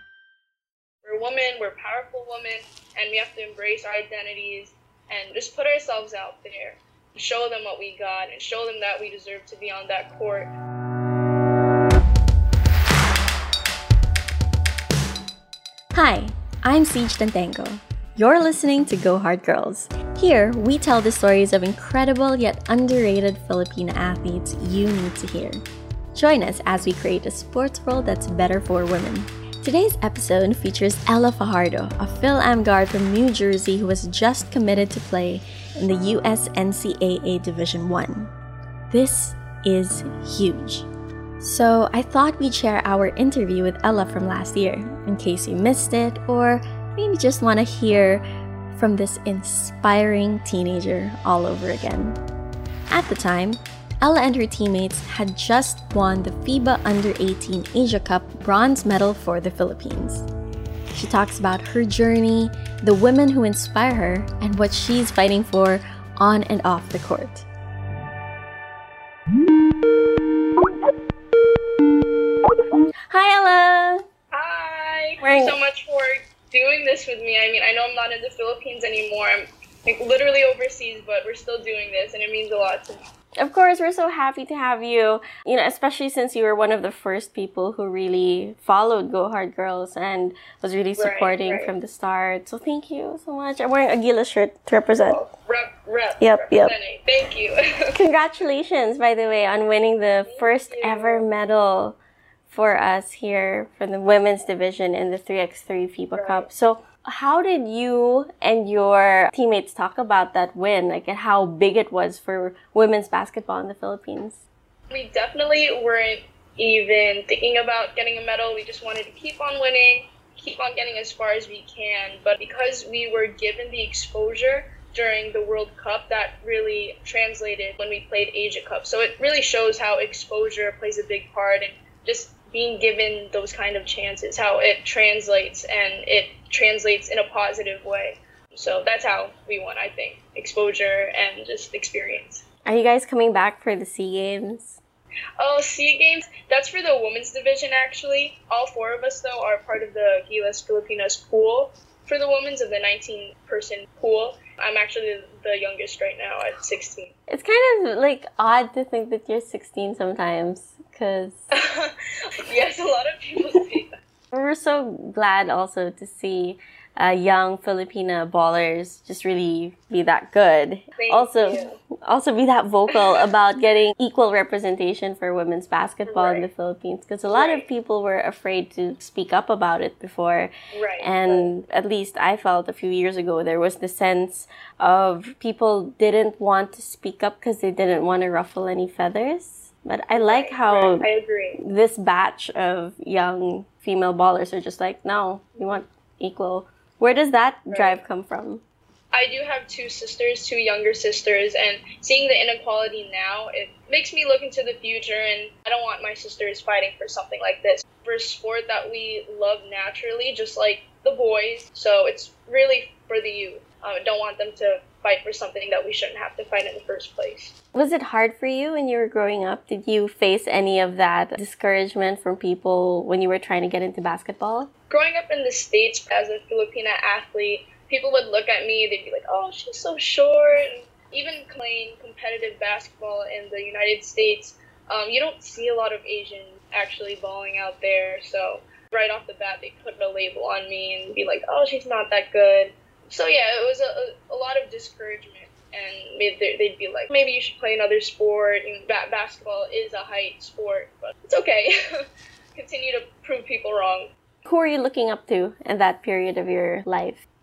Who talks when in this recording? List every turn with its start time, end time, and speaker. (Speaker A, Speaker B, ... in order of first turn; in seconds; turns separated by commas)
Speaker A: 1.0-10.5, Speaker B: 15.9-25.6, Speaker B: 26.1-38.3, Speaker B: 38.9-40.8, Speaker B: 41.4-48.2, Speaker B: 48.8-52.2, Speaker B: 52.9-60.3, Speaker B: 60.9-67.5, Speaker B: 73.1-74.0, Speaker A: 74.3-83.0, Speaker B: 75.2-75.5, Speaker B: 83.4-95.2, Speaker A: 91.0-91.7, Speaker A: 95.0-98.0, Speaker B: 96.2-96.7, Speaker B: 98.0-102.0, Speaker A: 100.2-101.3, Speaker B: 102.5-114.4, Speaker A: 106.2-106.5, Speaker A: 114.9-142.4, Speaker B: 142.7-144.8, Speaker A: 145.4-157.1, Speaker B: 157.3-161.5, Speaker A: 161.5-164.0, Speaker B: 164.3-191.1, Speaker A: 171.0-171.8, Speaker A: 172.9-173.3, Speaker A: 176.1-176.5, Speaker A: 177.3-177.7, Speaker A: 180.7-181.5, Speaker A: 190.1-191.6, Speaker B: 191.6-198.6, Speaker A: 197.7-198.0, Speaker A: 199.1-217.5, Speaker B: 217.7-224.7, Speaker A: 224.9-254.1, Speaker B: 254.4-257.2